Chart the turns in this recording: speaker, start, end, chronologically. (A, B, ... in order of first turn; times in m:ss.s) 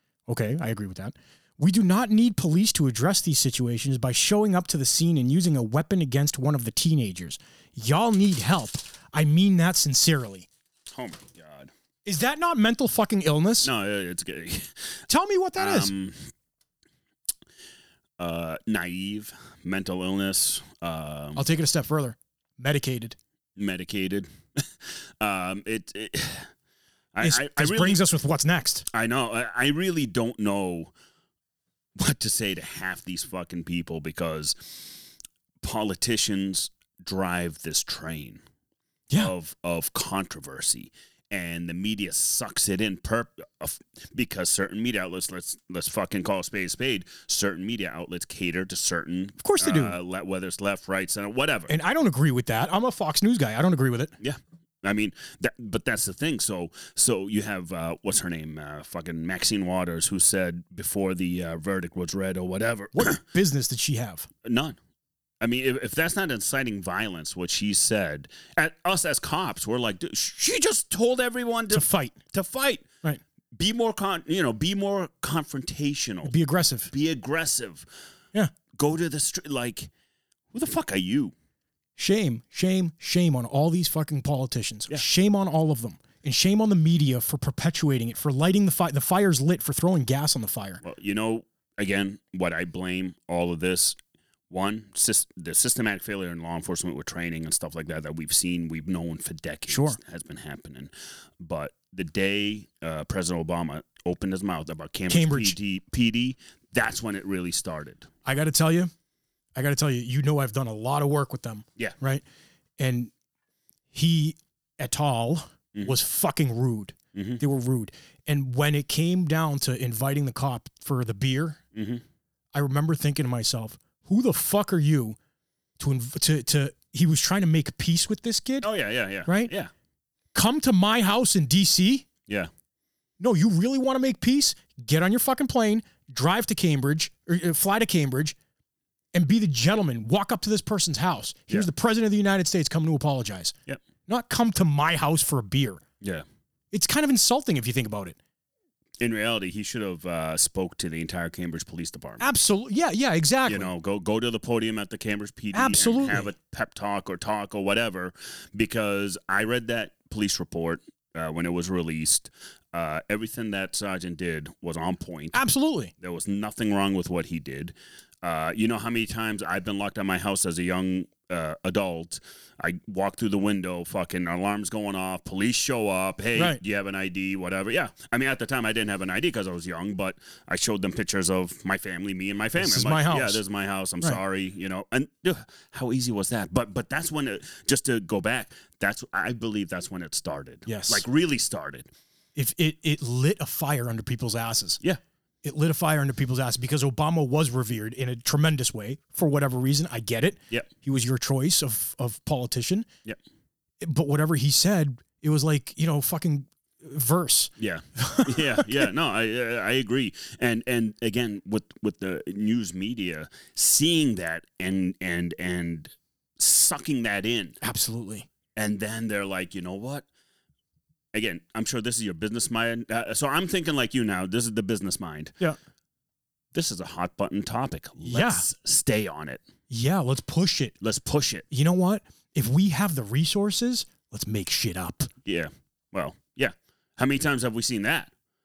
0:00.3-0:10.5 A
0:10.9-0:11.7 B
0:12.0-0:13.7 A
0:13.6-0:15.0 B
0:15.1-0:15.9 A
0:15.6-0:16.2 B
0:18.2-0:21.4 B
0:21.4-0:23.2 A
0:23.6-0:26.5 B
0:27.1-0:28.0 B
0:27.2-0:28.9 A
0:28.9-0:30.9 B
0:32.0-0:35.0 B
0:35.6-0:38.4 B
0:39.2-0:51.7 B
0:49.4-0:50.0 A
0:51.7-0:54.1 A
0:54.2-1:03.2 B
1:02.9-1:04.3 A
1:04.4-1:04.8 B
1:05.4-1:12.9 B
1:11.7-1:12.2 A
1:13.6-1:16.3 B
1:16.2-1:16.9 A
1:16.9-1:17.9 B
1:18.7-1:19.9 B
1:20.5-1:21.3 B
1:22.0-1:30.8 A
1:30.8-1:34.0 B
1:34.5-1:48.1 B
1:39.7-1:40.0 A
1:45.1-1:45.6 A
1:48.2-1:48.9 A
1:49.6-1:52.2 A
1:52.8-1:53.1 A
1:53.9-2:01.6 A
1:57.1-1:57.4 B
2:01.7-2:02.0 B
2:02.5-2:05.2 A
2:05.8-2:08.7 A
2:08.6-2:09.7 B
2:09.3-2:09.5 A
2:10.3-2:12.1 A
2:13.2-2:18.4 A
2:19.1-2:23.6 A
2:24.1-2:25.8 A
2:26.7-2:28.2 A
2:29.0-2:32.2 B
2:32.2-2:33.7 A
2:33.5-2:45.4 B
2:35.5-2:36.3 A
2:45.3-2:45.9 A
2:46.0-3:11.9 B
3:02.6-3:03.4 A
3:10.7-3:11.0 A
3:12.4-3:14.8 A
3:15.4-3:22.9 A
3:23.8-3:28.9 A
3:27.6-3:37.6 B
3:37.6-3:38.3 A
3:38.6-3:40.1 B
3:41.1-3:45.4 B
3:46.5-3:49.4 B
3:48.0-3:48.5 A
3:49.7-3:50.8 A
3:50.8-3:51.5 B
3:51.5-3:55.1 A
3:55.2-3:58.1 B